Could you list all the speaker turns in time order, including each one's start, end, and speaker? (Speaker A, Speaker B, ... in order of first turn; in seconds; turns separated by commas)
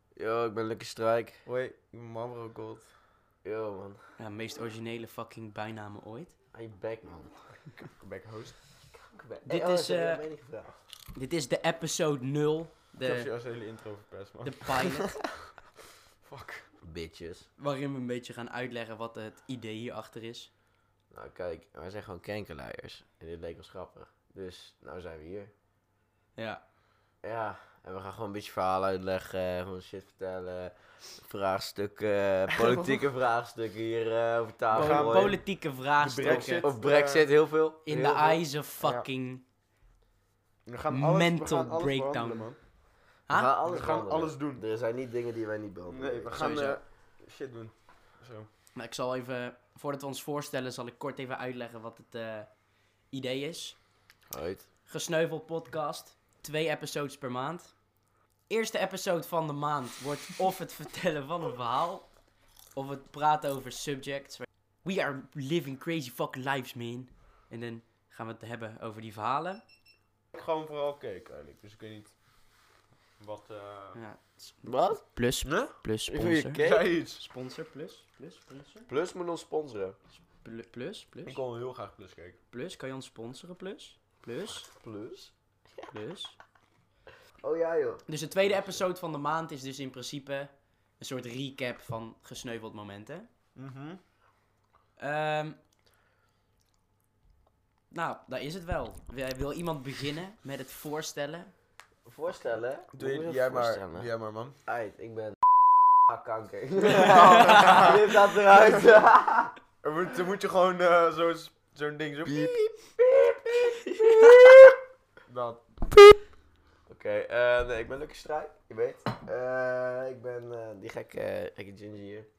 Speaker A: 0.2-1.4, Speaker B: 1.4-2.9, Speaker A: 3.4-4.0, Speaker C: 4.2-6.3, Speaker A: 6.5-7.3, Speaker B: 7.8-8.6, Speaker A: 8.9-10.8, Speaker C: 9.5-10.2, Speaker C: 11.2-13.3, Speaker B: 13.0-15.1, Speaker C: 14.4-15.2, Speaker B: 16.2-16.7, Speaker A: 16.8-17.5, Speaker C: 17.6-20.5, Speaker A: 21.1-25.5, Speaker C: 26.4-26.6, Speaker A: 27.2-35.4, Speaker B: 34.7-37.3, Speaker C: 34.7-36.7, Speaker A: 36.6-38.4, Speaker C: 37.9-39.4, Speaker B: 38.8-39.1, Speaker B: 40.7-42.6, Speaker C: 40.9-42.5, Speaker A: 43.3-46.8, Speaker B: 43.6-44.6, Speaker B: 45.9-48.5, Speaker C: 46.4-46.7, Speaker C: 48.8-52.6, Speaker C: 53.1-53.8, Speaker A: 54.3-54.7, Speaker C: 54.9-57.8, Speaker C: 58.5-62.2, Speaker C: 62.7-69.6, Speaker B: 70.3-72.2, Speaker B: 73.2-74.0, Speaker C: 74.0-78.9, Speaker A: 74.6-75.0, Speaker B: 75.4-75.8, Speaker A: 76.1-76.9, Speaker B: 76.6-77.2, Speaker A: 78.9-80.0, Speaker C: 80.4-81.4, Speaker B: 81.3-82.4, Speaker C: 82.5-84.7, Speaker A: 84.7-85.9, Speaker C: 85.9-86.4, Speaker A: 87.4-88.8, Speaker C: 88.1-93.3, Speaker B: 93.6-94.0, Speaker C: 95.0-95.6, Speaker C: 97.9-101.5, Speaker A: 102.1-104.1, Speaker B: 102.9-104.6, Speaker A: 104.7-109.5, Speaker B: 107.0-109.0, Speaker B: 109.8-112.6, Speaker A: 112.3-114.8, Speaker B: 115.3-115.7, Speaker A: 116.9-122.3